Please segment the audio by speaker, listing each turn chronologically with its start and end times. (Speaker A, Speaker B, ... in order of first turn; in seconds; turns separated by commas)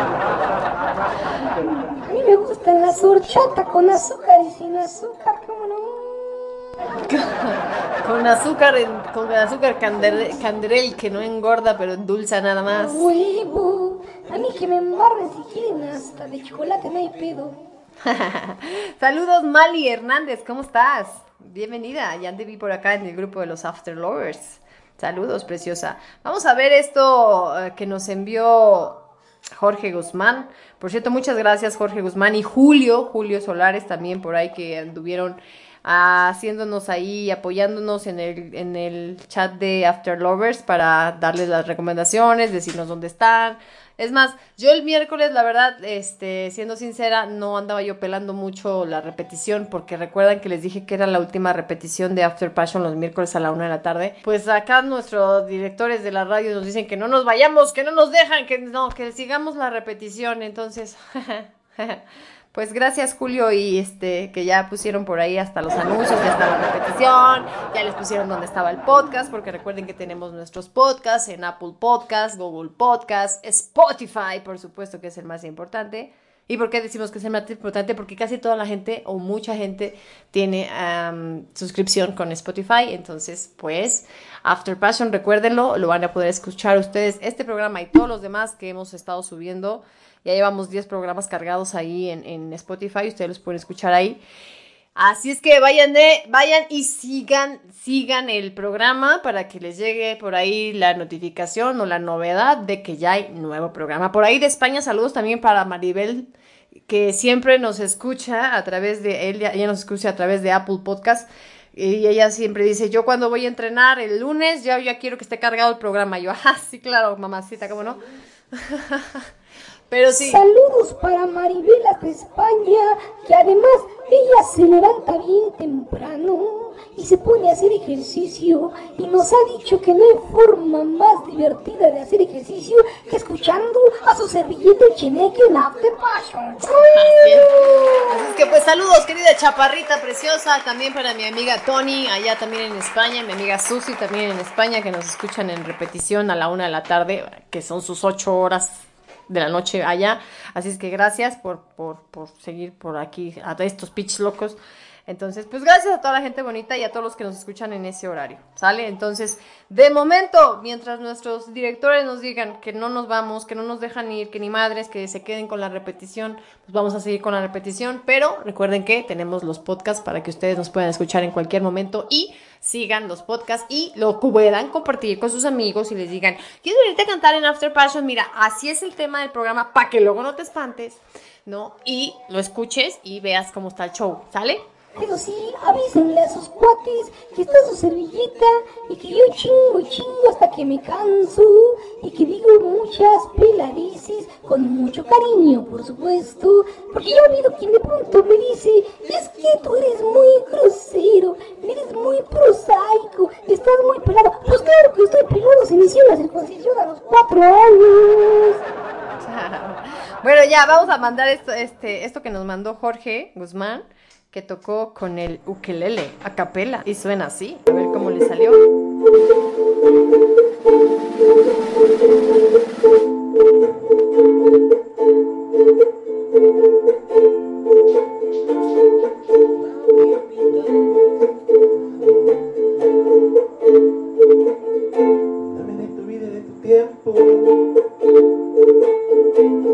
Speaker A: 1.9-6.9, Speaker B: 7.0-13.1, Speaker A: 12.7-17.6, Speaker B: 18.1-29.0, Speaker B: 29.6-62.0, Speaker B: 62.5-94.2, Speaker B: 95.0-106.3, Speaker B: 106.9-118.0, Speaker B: 118.5-119.2, Speaker B: 119.9-120.4, Speaker A: 120.1-138.5, Speaker B: 136.9-137.5, Speaker B: 138.1-184.6, Speaker A: 184.9-208.6, Speaker B: 209.2-218.6, Speaker C: 235.5-237.6